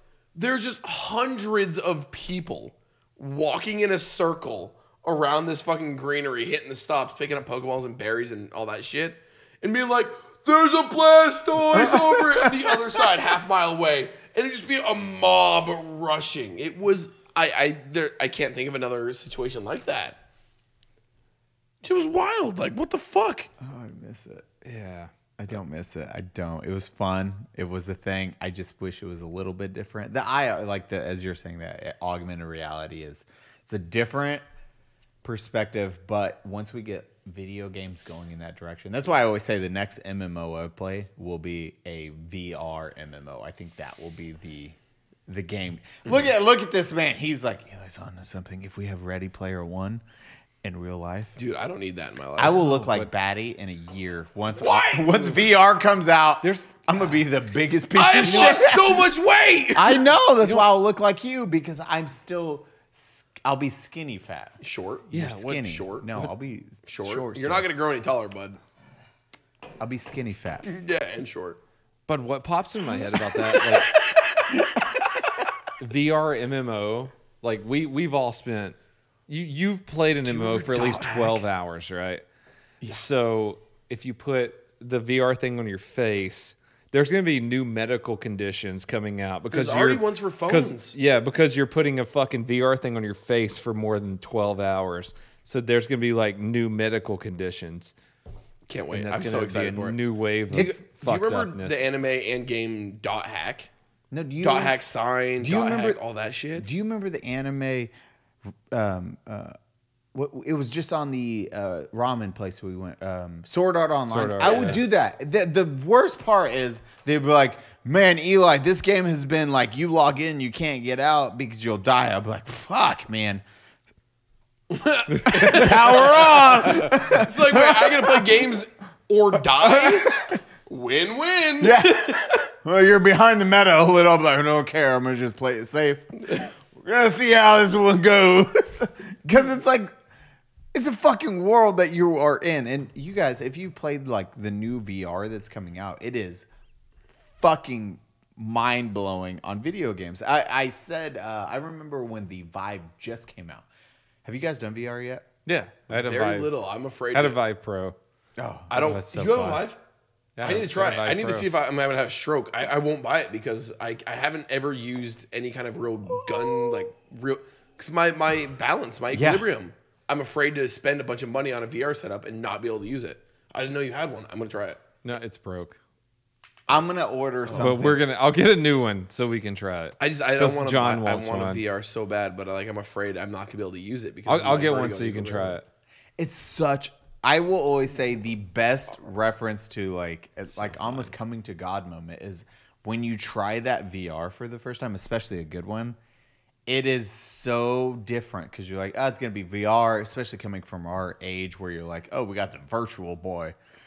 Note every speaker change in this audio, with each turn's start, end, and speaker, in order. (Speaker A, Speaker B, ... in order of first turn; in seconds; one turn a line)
Speaker A: 0.3-20.2
Speaker B: 11.7-12.8
Speaker A: 21.8-23.5
Speaker B: 23.6-24.5
Speaker C: 24.6-25.1
Speaker B: 25.4-34.4
Speaker B: 35.2-50.0
Speaker B: 50.6-51.4
Speaker A: 51.4-52.6
Speaker B: 52.4-59.1
Speaker C: 52.5-53.1
Speaker A: 54.5-55.5
Speaker C: 56.4-56.7
Speaker A: 57.9-60.6
Speaker C: 58.2-58.6
Speaker B: 59.8-64.6
Speaker A: 64.6-66.3
Speaker B: 65.1-67.7
Speaker A: 66.9-68.6
Speaker B: 69.8-70.7
Speaker A: 70.6-71.6
Speaker C: 72.1-73.9
Speaker C: 75.8-78.8
Speaker C: 79.3-82.2
Speaker A: 80.3-81.4
Speaker C: 82.9-97.9
Speaker A: 89.5-91.0
Speaker A: 98.7-100.0
Speaker C: 98.9-101.8
Speaker A: 100.5-103.7
Speaker B: 104.1-104.8
Speaker A: 104.4-106.7
Speaker B: 105.4-106.0
Speaker B: 106.6-107.9
Speaker B: 108.7-109.5
Speaker B: 110.1-123.4
Speaker C: 114.1-114.8
Speaker A: 114.4-114.9
Speaker A: 124.7-132.4
Speaker C: 125.1-125.6
Speaker B: 125.3-128.4
Speaker B: 129.5-130.3
Speaker B: 131.6-139.9
Speaker B: 140.7-146.5
Speaker B: 147.4-153.7
Speaker B: 154.2-155.3
Speaker C: 155.5-156.5
Speaker A: 155.9-157.4
Speaker C: 157.1-158.0
Speaker B: 158.4-158.9
Speaker A: 158.7-159.8
Speaker C: 158.8-159.7
Speaker C: 160.4-161.5
Speaker A: 160.4-174.8
Speaker B: 169.1-169.5
Speaker C: 175.0-175.8
Speaker B: 176.7-178.0
Speaker A: 177.5-177.7
Speaker C: 177.5-181.6
Speaker A: 180.0-185.6
Speaker C: 184.3-185.6
Speaker B: 186.2-196.0
Speaker C: 190.6-191.1
Speaker B: 196.7-203.6